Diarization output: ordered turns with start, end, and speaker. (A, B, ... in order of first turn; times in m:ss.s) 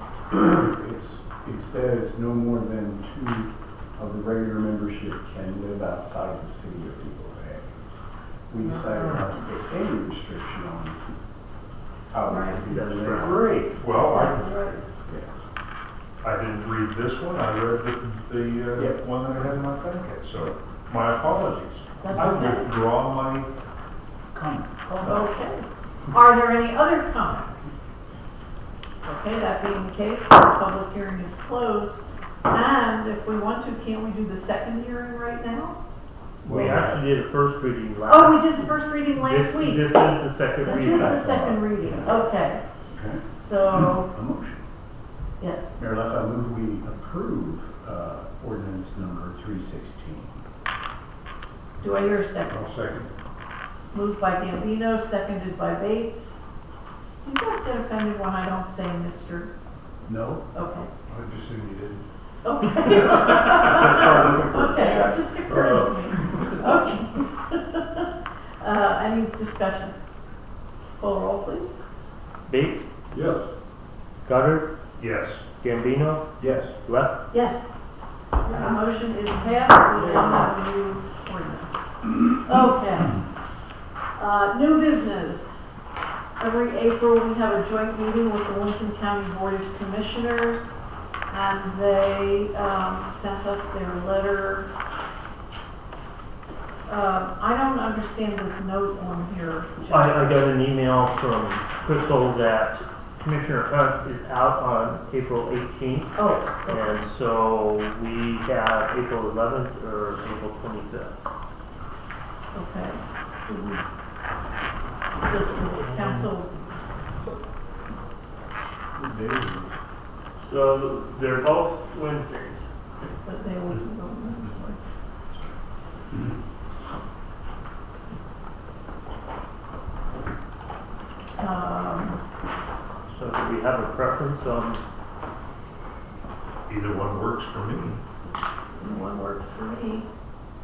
0:00.3-0:07.7 A
0:08.5-0:11.0 A
0:08.6-0:09.3 B
0:12.1-0:13.6 A
0:12.2-0:12.7 C
0:12.6-0:13.4 D
0:13.1-0:14.7 B
0:13.8-0:14.8 C
0:16.2-0:23.5 B
0:18.8-0:19.0 A
0:22.0-0:22.7 C
0:24.3-0:25.2 B
0:25.0-0:27.7 C
0:29.0-0:35.8 C
0:36.4-0:41.3 D
0:36.4-0:37.0 A
0:38.1-0:39.9 C
0:40.6-0:44.1 C
0:40.6-0:42.2 A
0:42.9-0:44.6 A
0:45.4-0:45.8 C
0:45.8-0:50.4 A
0:51.8-0:52.6 C
0:52.6-0:53.1 B
0:53.9-0:56.3 C
0:57.2-0:59.5 C
1:00.0-1:00.4 A
1:00.5-1:00.9 C
1:01.1-1:02.0 B
1:02.4-1:08.1 C
1:03.6-1:04.9 B
1:03.9-1:04.9 A
1:08.6-1:10.0 C
1:11.0-1:11.7 C
1:12.5-1:12.9 D
1:14.2-1:14.7 D
1:15.0-1:15.4 B
1:15.6-1:17.2 D
1:16.4-1:16.7 A
1:17.3-1:17.7 C
1:18.5-1:23.2 C
1:24.2-1:25.5 C
1:26.4-1:30.7 C
1:31.3-1:34.7 C
1:36.9-1:40.2 C
1:39.8-1:51.1 D
1:46.1-1:46.9 C
1:52.5-1:53.8 C
1:55.2-1:56.5 C
1:55.8-1:56.3 D
1:59.0-1:59.8 A
2:00.4-2:02.6 D
2:03.2-2:04.9 C
2:11.4-2:12.2 C
2:13.1-2:14.8 D
2:16.7-2:18.0 B
2:18.8-2:20.1 C